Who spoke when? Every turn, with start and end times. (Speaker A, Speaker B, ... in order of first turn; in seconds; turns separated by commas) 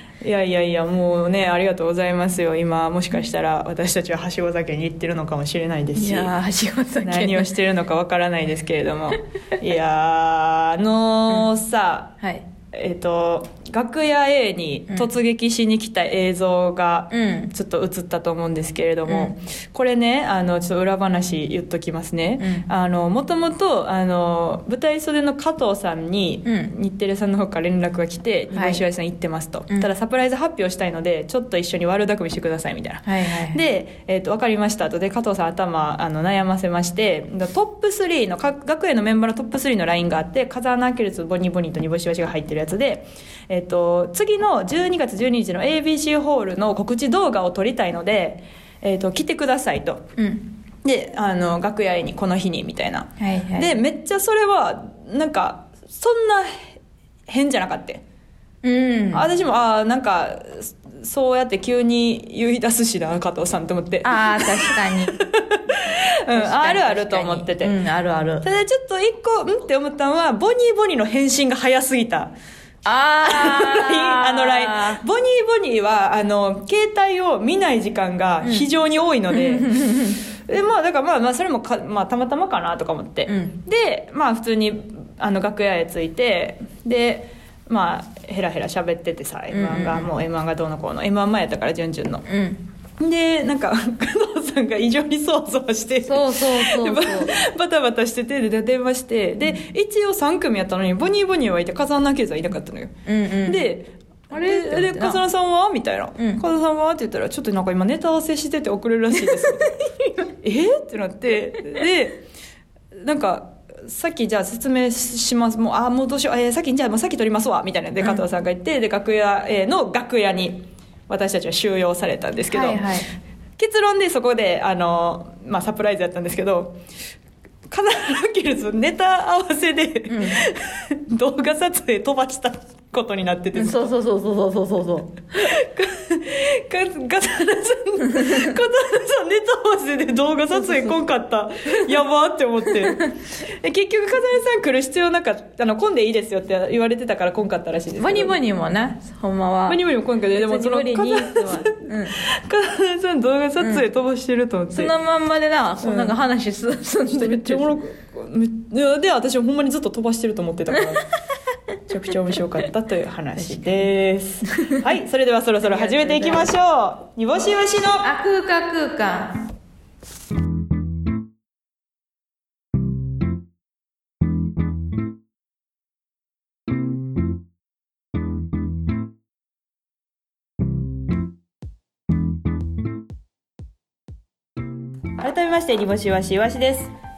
Speaker A: 0.2-6.3, Speaker B: 6.0-7.5, Speaker A: 7.0-12.1, Speaker B: 12.2-12.4, Speaker A: 12.7-50.1, Speaker B: 17.1-17.5, Speaker B: 19.1-19.3, Speaker B: 22.4-22.7, Speaker B: 26.4-26.7, Speaker B: 28.5-28.8, Speaker B: 33.0-33.6, Speaker B: 50.2-50.4, Speaker A: 50.8-56.7, Speaker B: 53.2-53.8, Speaker A: 57.3-58.0, Speaker B: 58.6-59.2, Speaker A: 59.1-67.8, Speaker B: 64.0-65.2, Speaker B: 66.3-68.4, Speaker A: 68.4-72.3, Speaker B: 72.8-75.0, Speaker A: 73.2-79.7, Speaker B: 78.4-78.7, Speaker B: 79.3-80.2, Speaker A: 80.4-92.2, Speaker B: 83.3-83.6, Speaker B: 89.5-90.1, Speaker B: 92.3-92.6, Speaker A: 93.0-102.9, Speaker B: 96.0-97.3, Speaker B: 103.0-103.7, Speaker A: 103.4-109.7, Speaker B: 104.3-105.2, Speaker B: 106.2-106.4, Speaker B: 109.4-110.1, Speaker A: 110.4-112.2, Speaker A: 113.0-123.0, Speaker B: 122.5-123.1, Speaker A: 123.6-126.8, Speaker A: 127.7-133.9, Speaker B: 130.1-130.4, Speaker B: 133.6-135.2, Speaker A: 135.3-148.3, Speaker B: 140.6-140.9, Speaker B: 148.0-152.2, Speaker A: 149.7-154.9, Speaker B: 154.7-157.8, Speaker A: 155.8-156.1, Speaker A: 157.1-161.0, Speaker A: 161.9-168.0, Speaker B: 163.4-163.8, Speaker B: 165.6-166.5, Speaker B: 168.0-169.4, Speaker A: 185.2-186.9